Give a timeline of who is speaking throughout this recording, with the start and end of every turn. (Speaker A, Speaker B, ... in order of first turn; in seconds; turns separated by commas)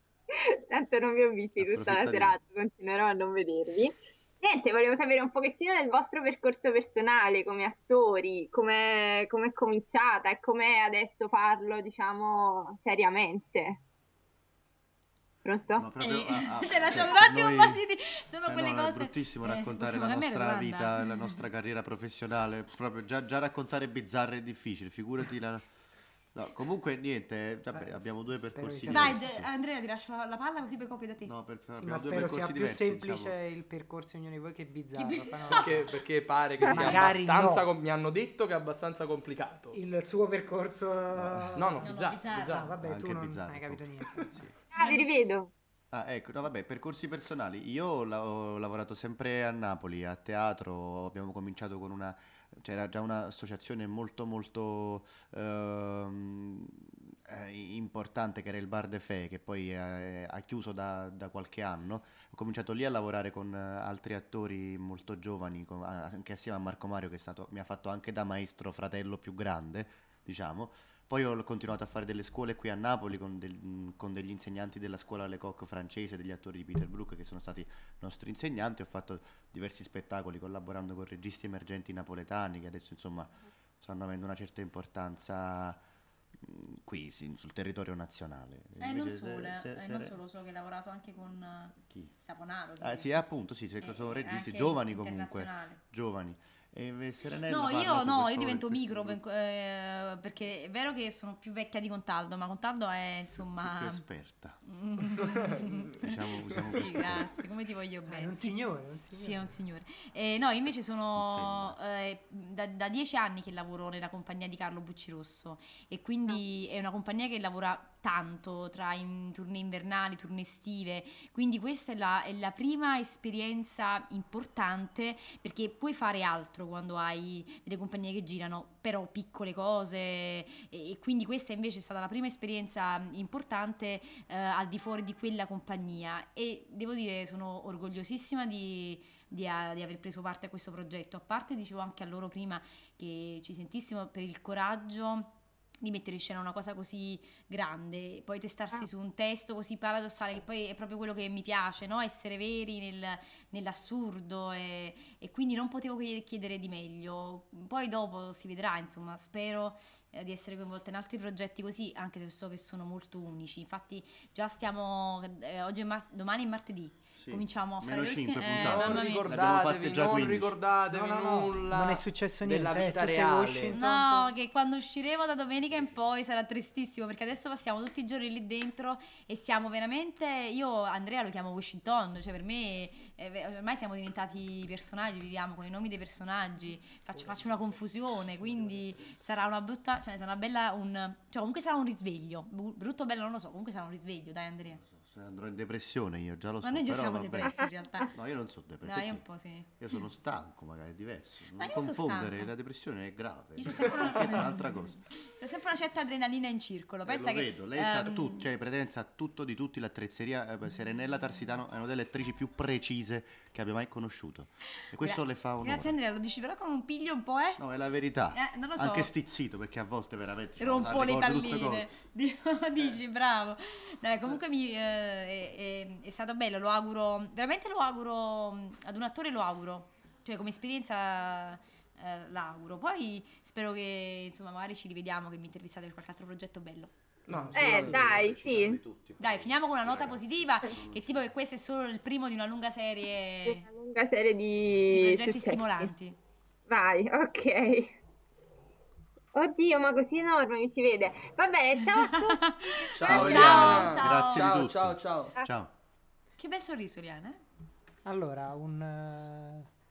Speaker A: 0.3-13.8, Speaker B: 1.6-2.4, Speaker A: 15.4-15.9, Speaker B: 15.8-17.8, Speaker C: 16.0-21.3, Speaker B: 18.4-25.6, Speaker B: 26.3-29.5, Speaker D: 27.7-29.2, Speaker C: 28.9-31.3, Speaker B: 31.2-33.3, Speaker D: 31.8-36.0, Speaker C: 34.9-35.8, Speaker E: 35.5-39.8, Speaker D: 36.7-37.6, Speaker D: 39.7-44.4, Speaker B: 41.1-41.6, Speaker E: 41.5-42.7, Speaker C: 41.8-42.7, Speaker B: 42.8-44.5, Speaker A: 44.7-45.5, Speaker B: 45.9-85.8, Speaker B: 86.4-90.2, Speaker C: 88.8-93.2, Speaker B: 91.9-92.1, Speaker B: 92.8-99.2, Speaker C: 93.8-95.8, Speaker C: 97.5-104.0, Speaker B: 103.6-104.6, Speaker C: 104.6-108.6, Speaker B: 105.6-107.3, Speaker D: 108.1-109.5, Speaker C: 109.1-169.3, Speaker B: 111.2-111.8, Speaker B: 167.2-170.6, Speaker E: 168.5-173.8, Speaker D: 170.9-174.3, Speaker C: 173.7-194.8, Speaker B: 175.7-175.9, Speaker B: 194.8-199.2, Speaker C: 196.6-198.1, Speaker C: 198.8-199.7, Speaker B: 199.8-205.0, Speaker C: 201.6-202.5, Speaker C: 203.6-208.5, Speaker B: 207.0-216.0, Speaker C: 215.0-217.6, Speaker B: 217.6-221.9, Speaker C: 218.3-219.1, Speaker C: 220.6-236.9, Speaker E: 237.3-238.2, Speaker B: 237.5-241.3, Speaker A: 237.5-238.8, Speaker C: 239.2-243.7, Speaker A: 243.4-245.9, Speaker C: 244.9-246.2, Speaker A: 246.7-247.9, Speaker A: 249.3-252.9, Speaker C: 251.9-254.5, Speaker E: 252.9-255.3, Speaker B: 253.0-255.7, Speaker C: 256.4-257.4, Speaker D: 258.0-259.7